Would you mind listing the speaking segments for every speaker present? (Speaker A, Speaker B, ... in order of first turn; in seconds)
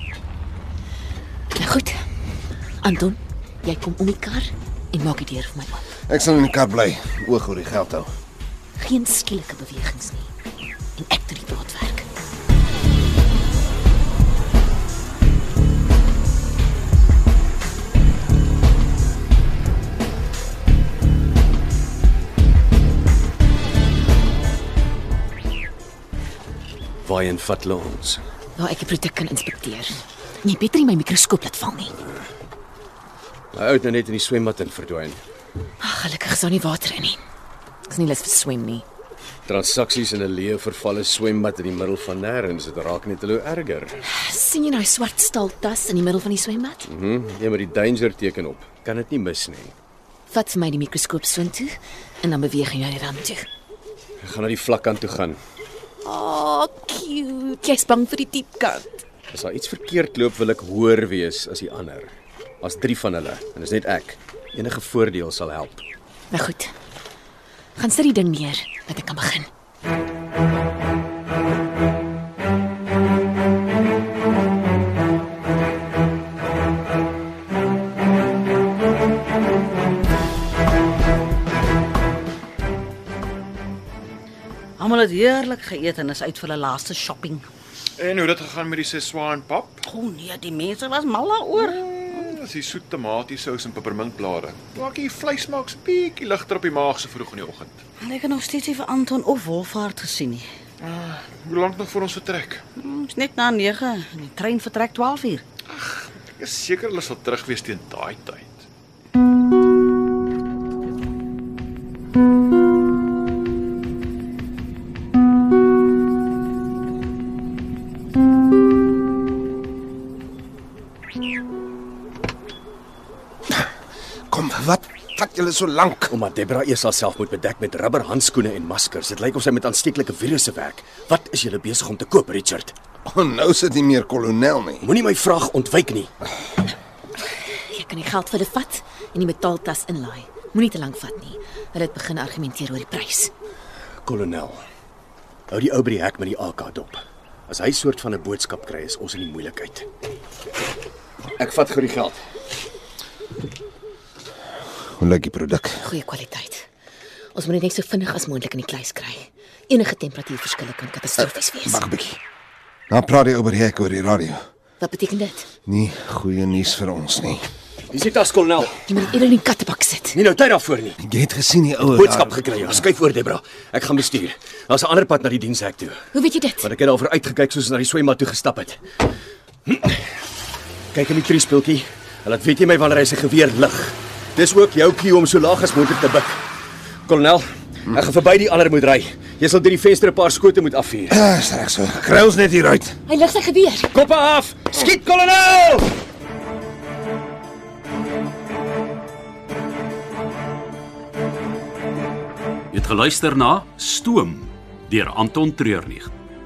Speaker A: 1.5-2.0, 2.8-5.8, 8.8-10.3, 11.0-12.1, 28.6-32.0, 35.8-37.2, 37.9-38.8, 44.1-46.9, 50.3-53.5, 56.0-59.0, 66.3-66.7, 67.8-69.5, 137.7-143.3, 155.8-156.7, 157.3-161.8, 164.8-165.5, 168.9-170.2, 176.1-176.7, 193.1-193.9
Speaker B: 6.1-8.1, 124.3-126.1, 133.1-134.9, 155.0-155.8, 161.2-162.2, 162.9-164.4, 165.7-167.5, 171.0-172.8, 191.1-192.9
Speaker C: 27.0-28.2, 33.5-35.2, 39.5-44.0, 46.9-49.7, 54.2-55.4, 59.3-65.8, 126.1-132.8, 134.8-136.1, 144.0-144.6, 145.5-149.9, 151.4-152.2, 167.9-168.8, 170.1-171.0, 171.9-176.1, 176.6-178.8, 179.7-180.0, 180.9-186.4, 187.1-191.2, 193.9-195.9
Speaker D: 84.8-87.5, 89.9-92.3, 98.0-100.5, 102.8-105.4
Speaker E: 88.0-89.8, 91.6-97.8, 100.8-102.6, 105.7-108.7
Speaker F: 202.7-206.1